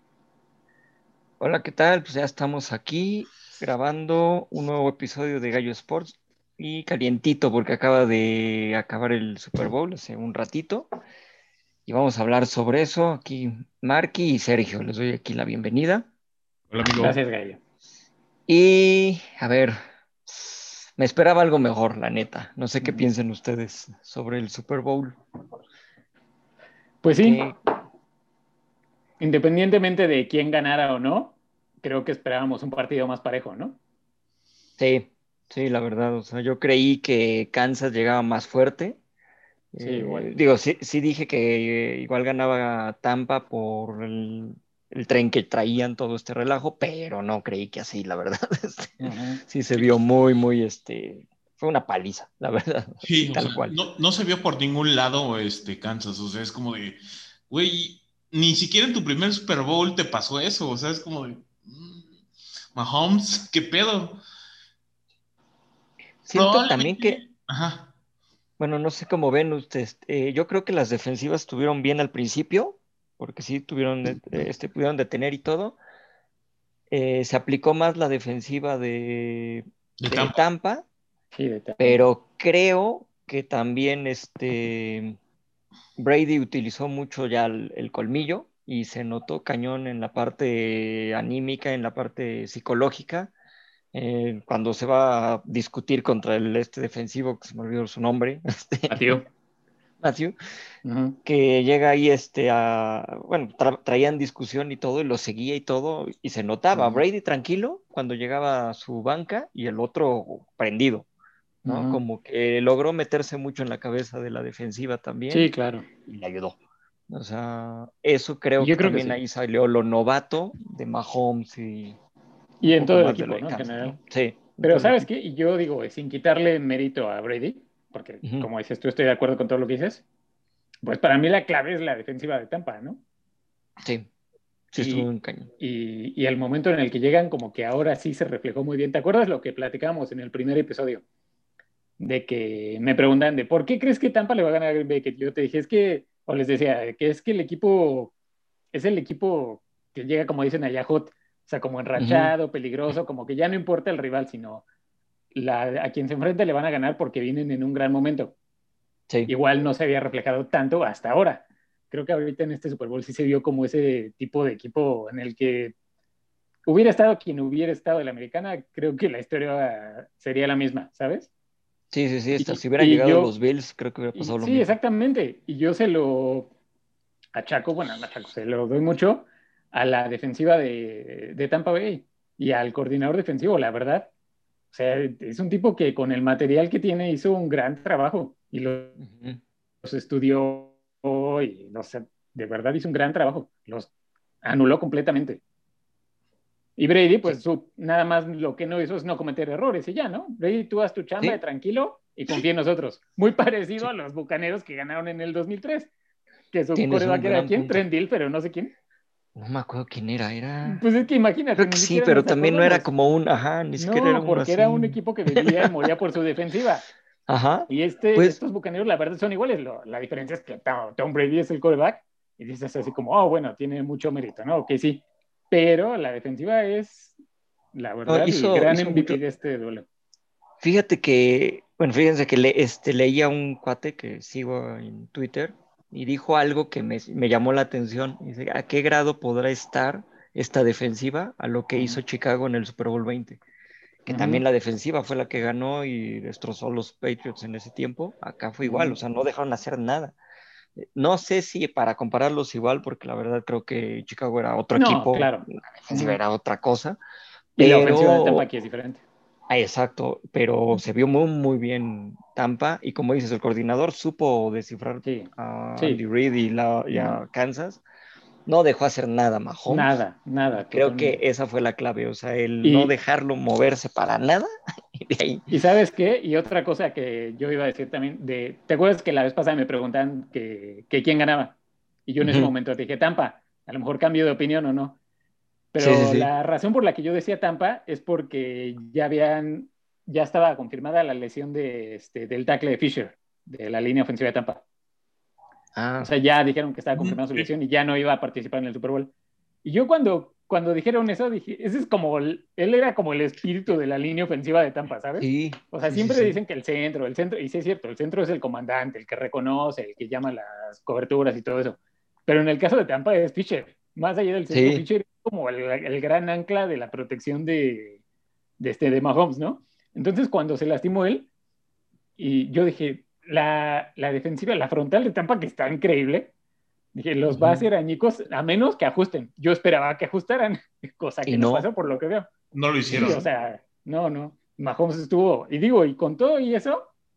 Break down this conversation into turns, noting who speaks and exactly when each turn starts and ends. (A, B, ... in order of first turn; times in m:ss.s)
0:01.4-0:10.9 A
0:11.9-0:16.1 A
0:16.7-0:17.2 B
0:17.0-0:17.6 C
0:18.5-0:25.2 A
0:22.8-0:23.0 C
0:27.0-0:27.5 C
0:27.2-0:27.6 A
0:29.2-0:33.8 C
0:34.8-0:39.0 A
0:39.7-0:53.8 A
0:39.8-0:40.3 C
0:49.0-0:49.4 C
0:53.0-1:02.1 B
1:02.7-1:04.2 B
1:06.2-1:07.2 A
1:06.3-1:07.9 B
1:08.6-1:15.8 A
1:16.9-1:20.8 A
1:20.0-1:20.4 B
1:21.3-1:22.0 C
1:21.8-1:25.2 A
1:26.0-1:33.3 A
1:33.9-1:39.2 A
1:38.9-1:39.2 C
1:40.0-1:40.4 A
1:40.8-1:41.2 C
1:41.2-1:51.1 A
1:46.7-1:47.0 C
1:51.6-1:52.0 C
1:51.6-1:55.5 A
1:55.3-1:55.9 C
1:56.0-1:56.6 A
1:57.1-2:02.0 A
1:58.6-1:59.2 C
2:02.6-2:04.0 C
2:02.6-2:05.1 A
2:04.6-2:10.0 C
2:08.2-2:08.5 A
2:10.8-2:13.0 C
2:13.8-2:14.1 A
2:14.7-2:15.5 A
2:14.8-2:15.1 C
2:15.6-2:21.0 C
2:22.0-2:28.1 C
2:28.7-2:34.6 C
2:32.0-2:32.3 A
2:35.3-2:38.4 C
2:39.3-2:45.7 C
2:46.6-2:51.3 C
2:51.9-2:54.8 A
2:52.4-2:53.3 C
2:54.1-2:56.5 C
2:57.3-3:04.1 C
3:04.7-3:09.0 C
3:09.0-3:09.4 A
3:09.8-3:13.9 C
3:14.4-3:15.4 C
3:16.8-3:25.9 C
3:26.5-3:28.7 C
3:26.7-3:27.8 A
3:29.4-3:30.8 A
3:30.6-3:32.8 C
3:31.6-3:35.7 A
3:33.8-3:36.8 C
3:37.3-3:38.4 A
3:37.7-3:47.2 C
3:47.7-3:49.8 C
3:48.1-3:49.2 A
3:50.6-4:03.4 A
4:04.0-4:10.1 A
4:04.1-4:04.4 C
4:08.6-4:09.0 C
4:10.8-4:17.0 A
4:14.7-4:16.2 C
4:17.6-4:19.0 C
4:17.6-4:18.4 A
4:19.5-4:27.8 A
4:25.0-4:26.0 C
4:28.4-4:29.9 A
4:29.7-4:31.2 C
4:30.6-4:35.5 A
4:32.6-4:32.9 C
4:35.5-4:45.0 C
4:42.2-4:42.5 A
4:45.7-4:54.6 C
4:45.8-4:46.3 A
4:55.7-4:56.1 A
4:56.0-4:59.1 C
4:56.9-4:57.5 B
4:59.6-5:18.0 C
5:05.2-5:06.4 A
5:14.5-5:14.8 A
5:18.6-5:21.3 C
5:22.2-5:26.3 C
5:26.9-5:32.3 C
5:27.3-5:27.7 A
5:31.2-5:31.6 A
5:32.5-5:33.2 B
5:32.9-5:33.2 A
5:32.9-5:36.9 C